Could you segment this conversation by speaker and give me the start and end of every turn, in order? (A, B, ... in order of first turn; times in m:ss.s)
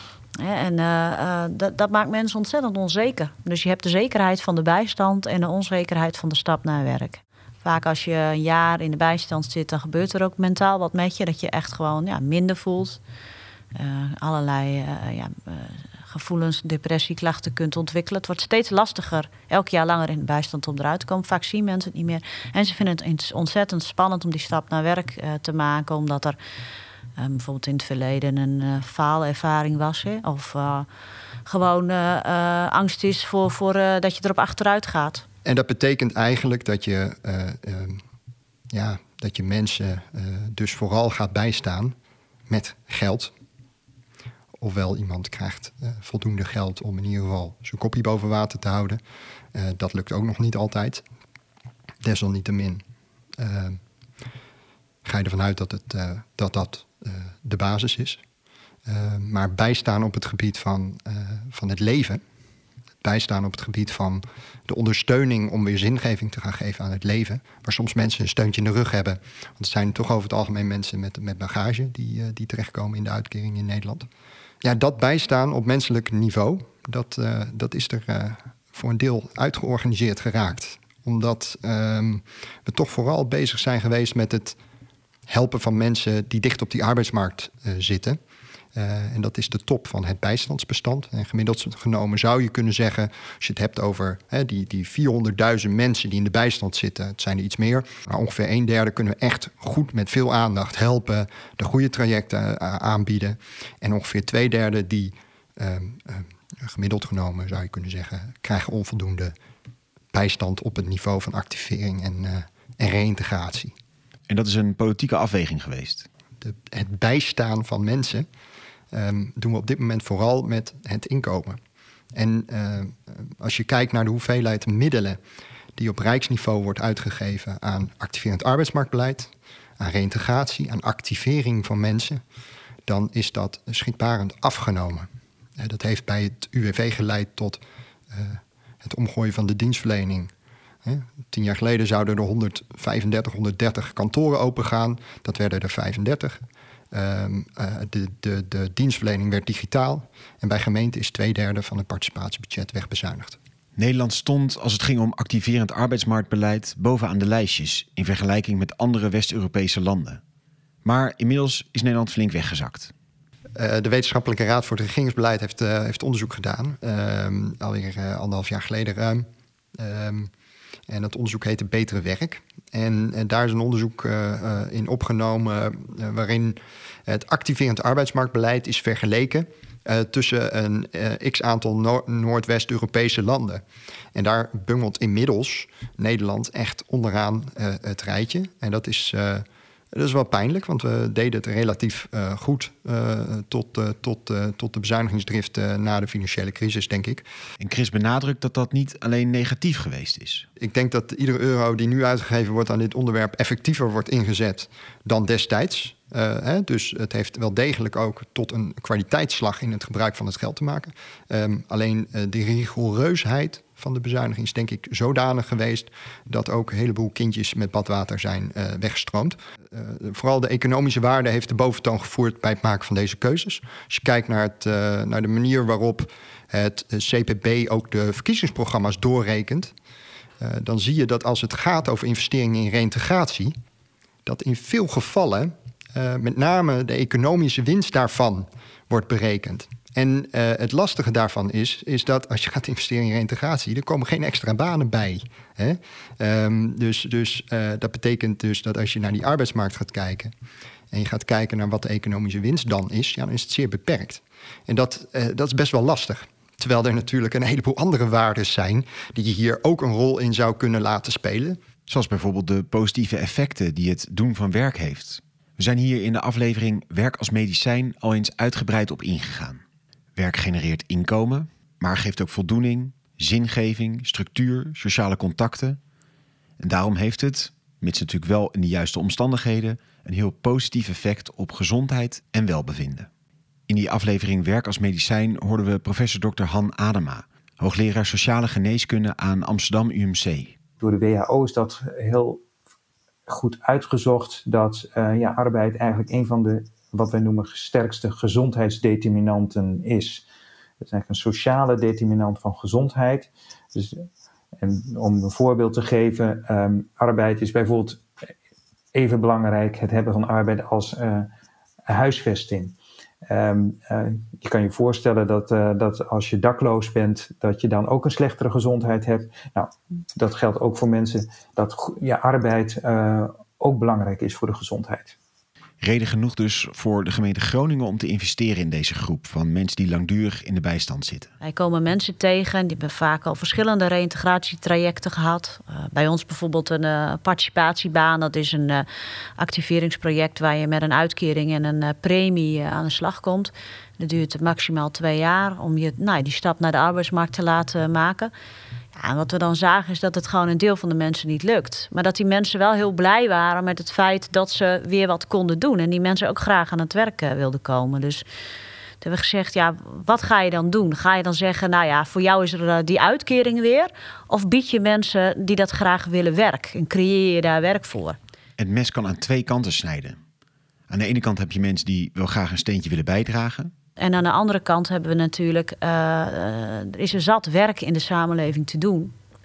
0:00.4-0:13.0 A
0:13.8-0:26.4 A
0:27.2-0:30.9 A
0:31.5-0:35.2 A
0:35.4-0:38.0 B
0:38.7-0:42.0 B
0:42.5-0:43.3 B
0:44.6-0:49.0 B
0:49.5-0:51.0 B
0:52.0-0:52.8 B
0:53.4-0:53.8 B
0:55.0-0:58.2 B
0:58.9-1:02.2 B
1:03.0-1:14.1 B
1:14.6-1:24.6 B
1:25.3-1:28.2 B
1:28.8-1:49.3 B
1:50.1-1:53.7 B
1:54.3-1:56.1 C
1:56.4-1:58.3 B
1:58.9-2:01.6 B
2:02.2-2:05.2 B
2:05.8-2:12.2 B
2:12.9-2:15.1 B
2:15.6-2:20.3 B
2:20.8-2:33.4 B
2:33.8-2:40.2 C
2:40.8-2:42.9 C
2:43.6-2:50.3 B
2:50.9-3:03.6 B
3:04.1-3:17.2 B
3:17.6-3:20.5 C
3:20.6-3:49.7 B
3:50.4-3:53.5 B
3:54.3-4:10.3 B
4:10.9-4:21.6 B
4:21.9-4:29.6 C
4:30.2-4:35.8 C
4:36.6-4:43.1 C
4:43.7-4:50.6 C
4:50.8-4:52.4 D
4:53.3-5:00.2 D
5:00.8-5:04.1 D
5:04.6-5:08.0 D
5:08.9-5:11.3 D
5:11.9-5:25.2 D
5:25.8-5:31.3 C
5:31.4-5:38.9 A
5:39.4-5:48.3 A
5:49.0-5:58.2 A
5:59.0-6:08.2 A
6:08.6-6:10.2 C
6:10.9-6:13.7 C
6:14.0-6:19.1 A